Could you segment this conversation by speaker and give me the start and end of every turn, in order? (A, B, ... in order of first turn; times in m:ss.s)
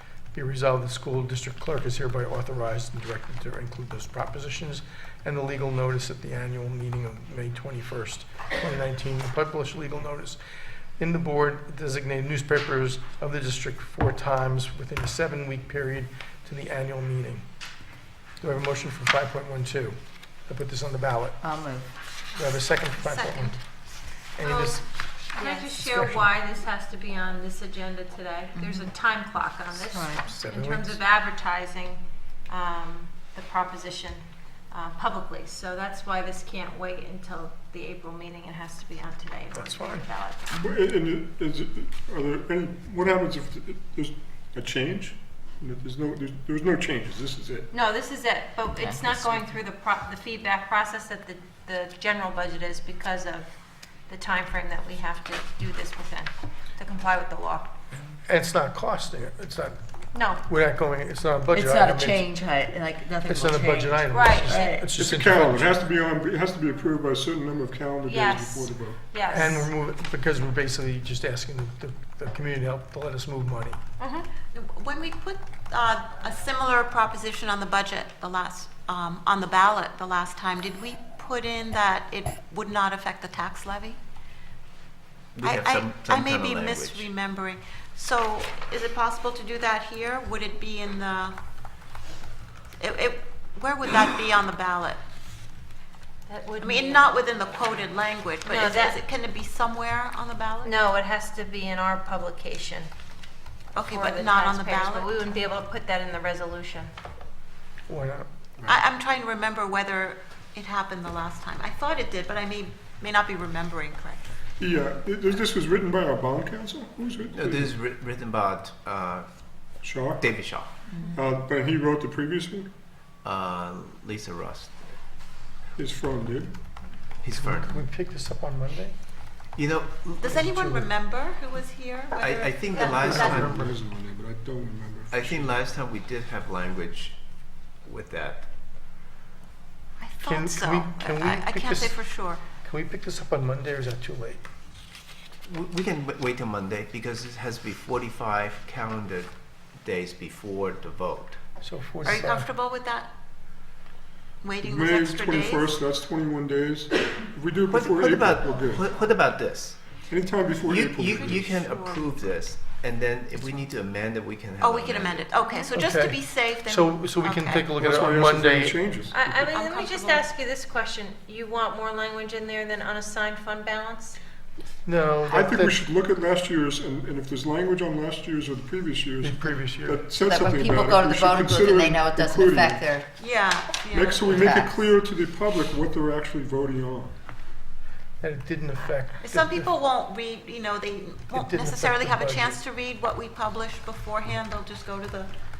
0:00.3-0:10.4 A
0:11.0-0:17.4 A
0:18.4-0:21.4 A
0:21.4-0:21.9 B
0:22.3-0:23.6 C
0:22.4-0:23.5 A
0:24.4-0:24.8 A
0:24.4-0:40.5 D
0:25.8-0:26.3 A
0:28.5-0:28.9 B
0:29.7-0:30.2 B
0:30.3-0:31.0 A
0:39.5-0:40.0 A
0:40.6-0:47.7 E
0:47.7-0:53.5 D
0:48.7-0:49.4 B
0:54.1-0:57.7 D
0:58.3-0:59.8 A
1:00.1-1:00.4 D
1:00.4-1:02.2 A
1:01.5-1:04.9 B
1:03.2-1:05.8 A
1:04.1-1:04.6 D
1:04.9-1:09.0 E
1:08.0-1:09.7 D
1:09.3-1:13.8 A
1:14.0-1:14.3 D
1:14.5-1:24.0 C
1:25.3-1:27.1 F
1:25.4-1:31.3 C
1:32.8-1:35.0 C
1:36.3-1:37.8 D
1:36.6-1:40.7 C
1:38.4-1:39.0 D
1:40.6-1:42.9 D
1:43.7-1:45.1 C
1:43.9-1:46.9 D
1:47.9-1:48.3 A
1:48.6-1:54.2 C
1:54.6-1:57.8 E
1:57.3-1:59.3 F
1:59.8-2:00.2 E
2:00.2-2:00.7 F
2:01.1-2:02.7 E
2:03.2-2:04.9 F
2:05.8-2:06.5 E
2:07.2-2:07.7 F
2:07.3-2:08.9 A
2:09.6-2:10.7 F
2:10.2-2:13.5 C
2:12.2-2:13.6 F
2:12.8-2:13.7 A
2:12.9-2:15.6 E
2:15.1-2:17.2 F
2:17.8-2:18.4 F
2:20.0-2:22.4 C
2:20.2-2:24.4 A
2:25.4-2:31.4 F
2:31.6-2:32.5 A
2:32.0-2:33.1 C
2:34.4-2:35.7 C
2:34.6-2:38.9 E
2:37.7-2:39.8 F
2:40.1-2:41.6 E
2:40.6-2:45.3 F
2:41.1-2:42.1 C
2:44.6-2:47.7 C
2:45.7-2:48.8 A
2:47.8-2:49.4 E
2:49.1-2:54.2 D
2:49.4-2:50.2 C
2:54.8-2:55.8 A
2:55.3-3:02.9 E
2:59.2-3:00.0 A
3:00.2-3:03.1 B
3:03.2-3:04.5 C
3:03.9-3:07.1 E
3:04.3-3:04.7 B
3:08.2-3:09.7 A
3:09.2-3:15.3 C
3:11.3-3:12.5 A